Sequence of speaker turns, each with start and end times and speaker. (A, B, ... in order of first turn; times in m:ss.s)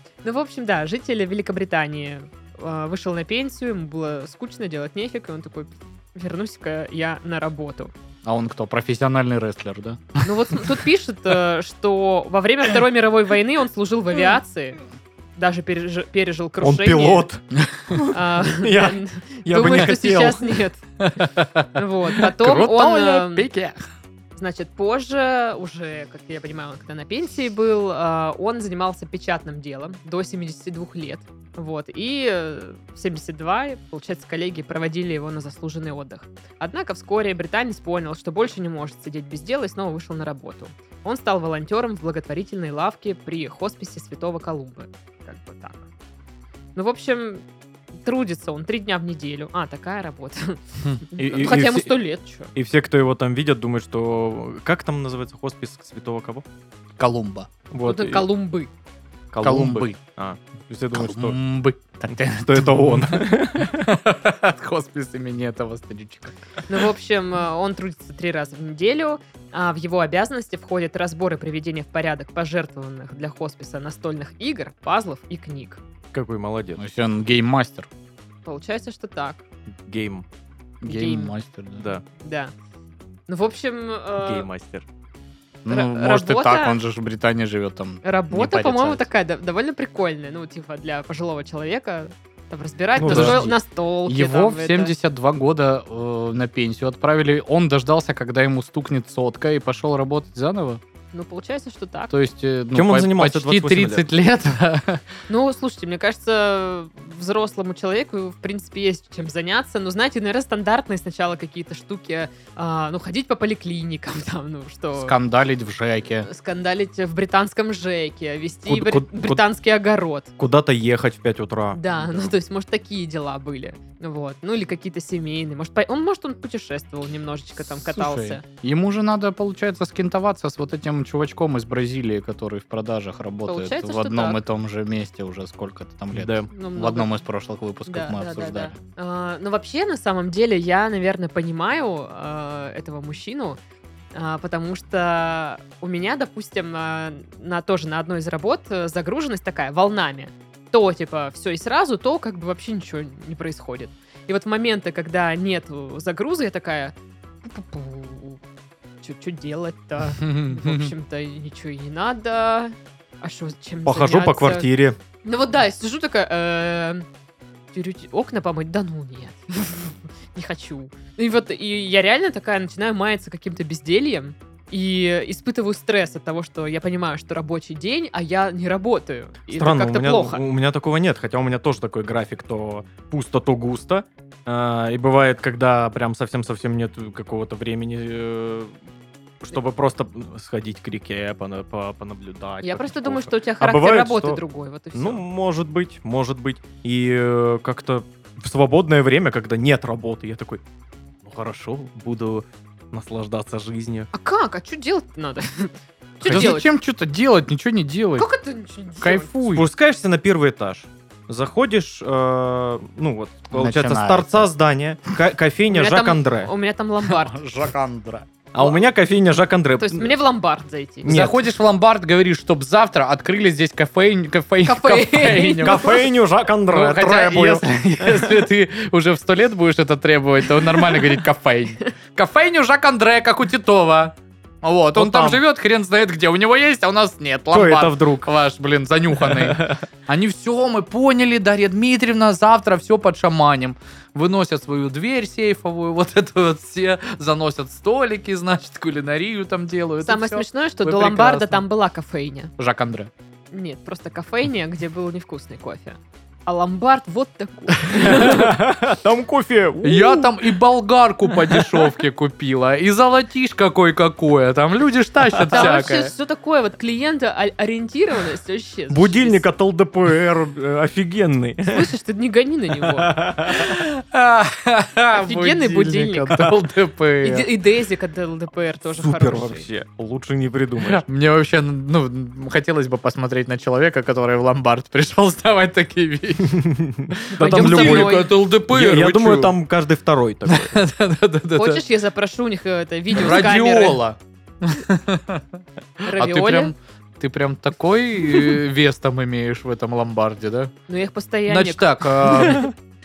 0:00.2-0:07.9 A
0:08.2-0:10.3 B
0:10.2-0:14.8 A
0:15.4-0:17.3 A
0:16.6-0:20.6 C
0:18.1-0:20.8 A
0:21.0-0:23.8 B
0:21.8-0:23.5 A
0:24.4-0:45.9 A
0:46.8-0:47.4 A
0:48.0-0:52.5 A
0:51.2-0:52.0 C
0:52.5-0:56.4 C
0:57.0-0:57.5 B
0:57.7-0:58.3 C
0:57.8-0:58.7 A
0:59.3-1:01.4 C
0:59.4-1:00.0 B
1:00.9-1:06.4 B
1:02.4-1:03.9 C
1:06.7-1:15.8 A
1:16.1-1:16.8 C
1:16.8-1:17.9 B
1:18.4-1:19.4 A
1:19.9-1:20.2 C
1:20.8-1:21.9 B
1:20.8-1:21.3 A
1:21.8-1:22.0 C
1:22.2-1:22.5 A
1:23.3-1:24.5 A
1:24.2-1:24.8 C
1:25.6-1:29.1 B
1:25.7-1:26.8 A
1:28.0-1:34.9 A
1:33.0-1:33.5 C
1:33.0-1:40.8 B
1:41.1-1:42.1 A
1:42.1-1:45.0 B
1:42.7-1:44.1 C
1:45.3-1:55.2 A
1:55.0-1:56.3 B
1:56.2-2:00.3 A
1:58.7-1:59.4 C
2:00.4-2:02.3 C
2:01.7-2:08.4 A
2:07.7-2:18.8 B
2:13.5-2:14.4 A
2:16.1-2:16.5 C
2:16.5-2:17.1 A
2:17.9-2:23.6 A
2:24.1-2:38.4 A
2:39.0-2:44.7 A
2:40.2-2:40.9 B
2:43.9-2:45.0 C
2:45.2-2:47.1 A
2:47.7-3:00.4 A
2:59.5-3:08.8 C
3:09.4-3:14.4 C
3:12.6-3:15.2 A
3:14.9-3:20.6 C
3:21.2-3:24.1 C
3:24.1-3:26.7 A
3:26.2-3:28.3 B
3:26.2-3:26.5 C
3:28.2-3:29.3 A
3:29.0-3:29.7 B
3:29.5-3:36.5 C
3:33.5-3:34.5 B
3:35.7-3:37.4 A
3:37.2-3:38.3 B
3:38.5-3:40.2 C
3:38.6-3:38.9 A
3:39.8-3:41.1 A
3:41.0-3:41.4 C
3:41.1-3:46.0 B
3:44.6-3:46.0 A
3:45.6-3:48.4 C
3:46.7-4:11.6 B
3:54.9-3:55.4 C
3:57.5-3:58.3 C
3:59.2-3:59.8 C
4:10.0-4:12.5 A
4:12.6-4:13.1 B
4:13.5-4:18.5 A
4:17.9-4:18.3 B
4:18.0-4:20.4 C
4:19.8-4:26.1 B
4:25.5-4:29.5 A
4:28.9-4:31.9 C
4:31.7-4:33.1 A
4:32.8-4:33.7 C
4:33.6-4:37.5 B
4:35.1-4:36.4 A
4:37.2-4:39.7 A
4:38.9-4:41.0 C
4:40.8-4:46.6 B
4:46.4-4:50.8 C
4:47.3-4:48.3 A
4:47.3-4:49.6 B
4:50.5-4:51.8 B
4:51.6-4:54.0 A
4:53.1-4:55.4 B
4:56.0-4:56.7 A
4:56.1-5:00.7 B
5:00.9-5:02.6 A
5:01.5-5:02.7 B